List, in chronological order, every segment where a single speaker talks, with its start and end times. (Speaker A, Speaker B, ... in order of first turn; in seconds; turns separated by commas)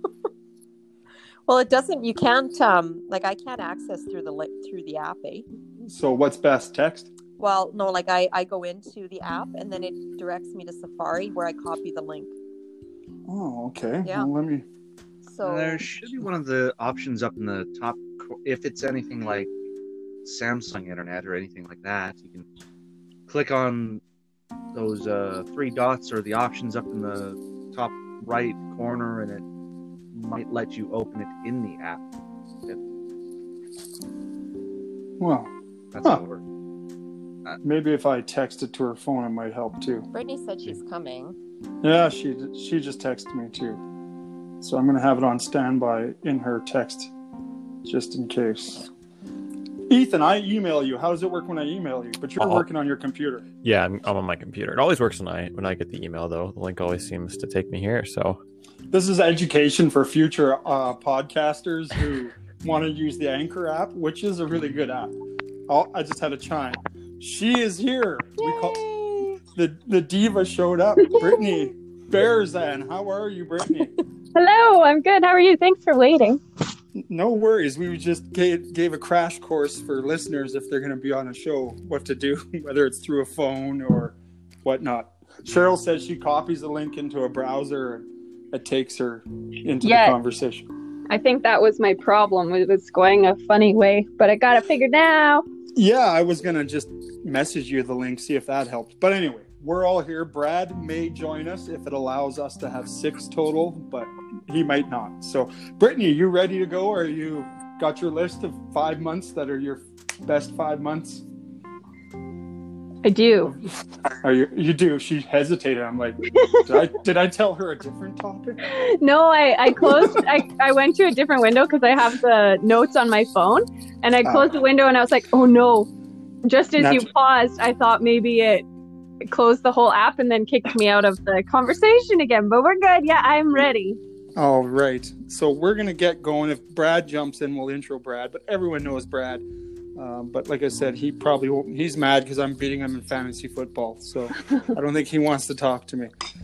Speaker A: 1.5-5.4, Speaker B: 5.8-7.1, Speaker A: 7.4-12.3, Speaker B: 13.3-14.7, Speaker A: 14.0-14.3, Speaker A: 15.2-15.8, Speaker C: 15.4-19.5, Speaker C: 20.2-22.4, Speaker C: 23.3-24.0, Speaker C: 24.7-29.4, Speaker C: 30.1-32.0, Speaker B: 35.2-35.5, Speaker C: 35.9-36.4, Speaker B: 37.6-40.1, Speaker A: 40.1-41.4, Speaker B: 41.8-43.8, Speaker B: 44.6-47.1, Speaker B: 47.8-48.9, Speaker B: 49.9-53.5, Speaker D: 52.4-52.6, Speaker D: 53.6-58.4, Speaker B: 58.9-65.1, Speaker B: 65.7-68.8, Speaker E: 69.0-69.4, Speaker B: 69.5-73.9, Speaker E: 71.0-71.4, Speaker E: 74.3-76.4, Speaker B: 77.0-90.7, Speaker E: 89.8-90.2, Speaker E: 91.1-95.4, Speaker B: 95.8-111.2, Speaker E: 113.0-113.5, Speaker B: 113.4-118.6, Speaker E: 118.6-125.9, Speaker B: 119.8-120.2, Speaker B: 124.2-124.5, Speaker E: 126.4-128.7, Speaker B: 126.8-127.1, Speaker E: 129.2-134.0, Speaker B: 134.4-139.4, Speaker B: 139.9-146.1